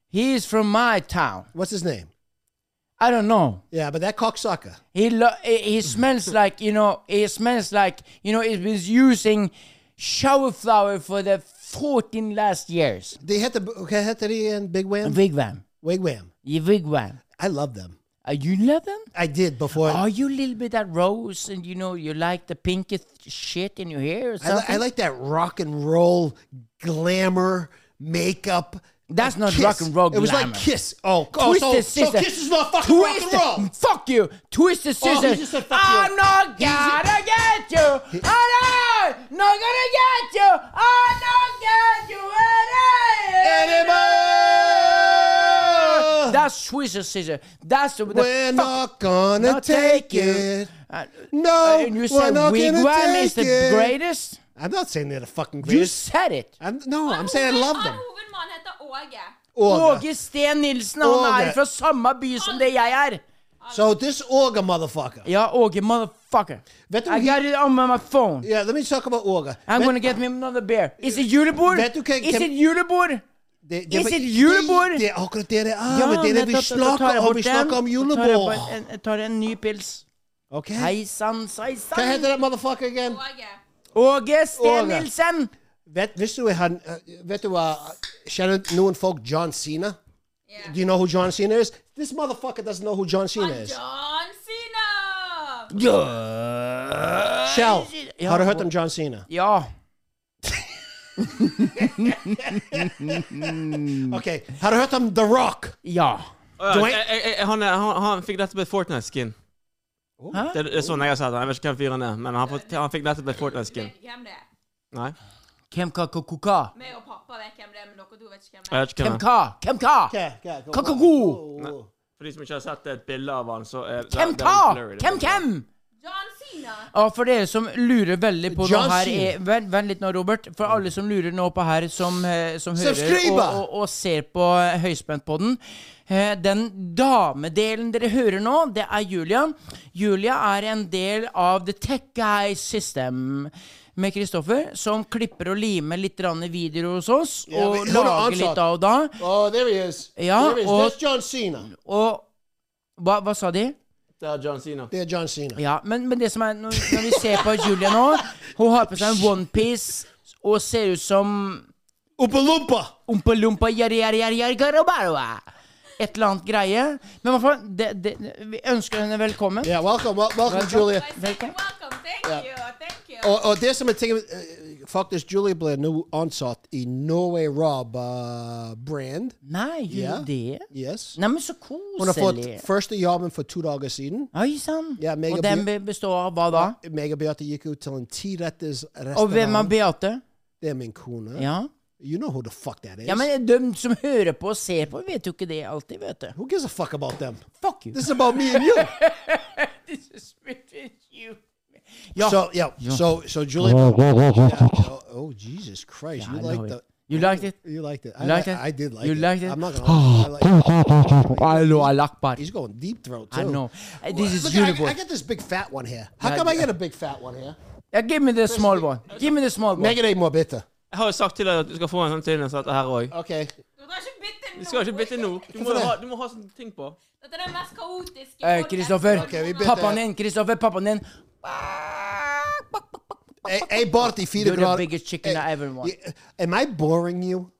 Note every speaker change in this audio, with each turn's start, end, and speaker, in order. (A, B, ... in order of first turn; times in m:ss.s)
0:00.1-0:01.5 A
0:01.5-0:02.1 B
0:03.0-0:03.6 A
0:03.7-0:04.8 B
0:04.9-0:13.2 A
0:13.2-0:15.2 B
0:15.0-0:15.6 A
0:15.8-0:16.3 B
0:16.4-0:17.2 A
0:17.4-0:18.0 B
0:18.2-0:19.1 A
0:19.1-0:20.0 B
0:19.7-0:24.8 A
0:24.4-0:33.7 B
0:29.1-0:30.7 A
0:31.3-0:32.3 A
0:32.8-0:48.8 A
0:35.0-0:37.0 B
0:43.4-0:46.4 B
0:48.1-0:50.7 B
0:49.3-0:54.4 A
0:51.3-0:54.0 B
0:54.6-0:56.0 B
0:55.6-0:56.5 A
0:56.6-0:58.0 B
0:57.0-0:59.4 C
0:59.5-1:00.0 B
0:59.6-1:03.2 A
1:01.0-1:01.6 B
1:02.4-1:02.8 C
1:03.6-1:04.0 C
1:03.7-1:05.3 B
1:05.2-1:08.5 A
1:06.9-1:07.4 B
1:08.4-1:10.0 B
1:09.7-1:13.2 A
1:11.0-1:12.5 B
1:13.6-1:18.8 B
1:13.9-1:15.0 A
1:15.9-1:20.0 A
1:20.5-1:20.9 B
1:20.7-1:22.3 A
1:21.9-1:23.2 B
1:23.0-1:23.6 C
1:23.9-1:25.5 A
1:24.6-1:25.1 B
1:25.8-1:30.0 B
1:30.5-1:30.7 C
1:30.6-1:33.8 B
1:33.3-1:35.7 C
1:35.7-1:38.7 A
1:37.5-1:39.2 B
1:39.3-1:39.7 A
1:41.2-1:44.2 A
1:42.4-1:45.8 B
1:45.8-1:46.3 A
1:46.6-1:49.3 D
1:46.7-1:47.0 B
1:50.2-1:51.1 B
1:50.3-1:50.6 A
1:50.5-1:53.9 D
1:52.4-1:52.8 C
1:53.4-1:54.5 C
1:55.7-1:56.7 A
1:56.7-1:58.8 C
1:58.7-1:59.2 D
1:59.0-2:00.1 A
2:00.1-2:01.9 B
2:00.7-2:01.4 A
2:01.6-2:05.4 D
2:04.1-2:05.6 A
2:06.0-2:06.9 C
2:06.9-2:29.2 A
2:08.5-2:09.3 B
2:12.8-2:13.6 B
2:27.5-2:28.6 B
2:29.2-2:31.7 B
2:30.2-2:31.0 A
2:31.6-2:32.3 A
2:33.0-2:33.8 A
2:34.2-2:34.9 D
2:34.9-2:35.6 B
2:35.6-2:41.7 A
2:36.8-2:38.2 B
2:38.8-2:39.4 B
2:42.2-2:42.9 B
2:43.1-2:45.4 A
2:46.0-2:49.7 A
2:49.6-2:51.1 B
2:50.5-2:51.5 A
2:50.6-2:53.3 C
2:53.2-2:59.4 B
2:59.4-3:02.6 A
2:59.9-3:01.2 B
3:02.0-3:04.3 B
3:04.3-3:06.8 A
3:05.0-3:05.7 B
3:06.5-3:09.7 B
3:09.1-3:10.2 A
3:10.6-3:11.5 B
3:11.4-3:11.7 A
3:12.0-3:13.3 B
3:13.0-3:16.4 A
3:16.3-3:18.9 B
3:17.6-3:21.4 A
3:22.1-3:23.0 A
3:22.2-3:37.6 B
3:26.2-3:27.5 A
3:28.2-3:32.4 A
3:33.3-3:34.9 A
3:36.2-3:36.7 A
3:37.9-3:40.0 A
3:38.5-3:39.2 B
3:39.8-3:40.6 B
3:40.9-3:43.1 D
3:43.1-3:43.5 B
3:43.8-3:45.5 C
3:44.6-3:47.0 D
3:45.5-3:46.0 B
3:47.2-3:50.0 C
3:48.4-3:53.5 A
3:49.1-3:50.0 B
3:53.4-3:57.5 B
3:54.4-3:55.9 A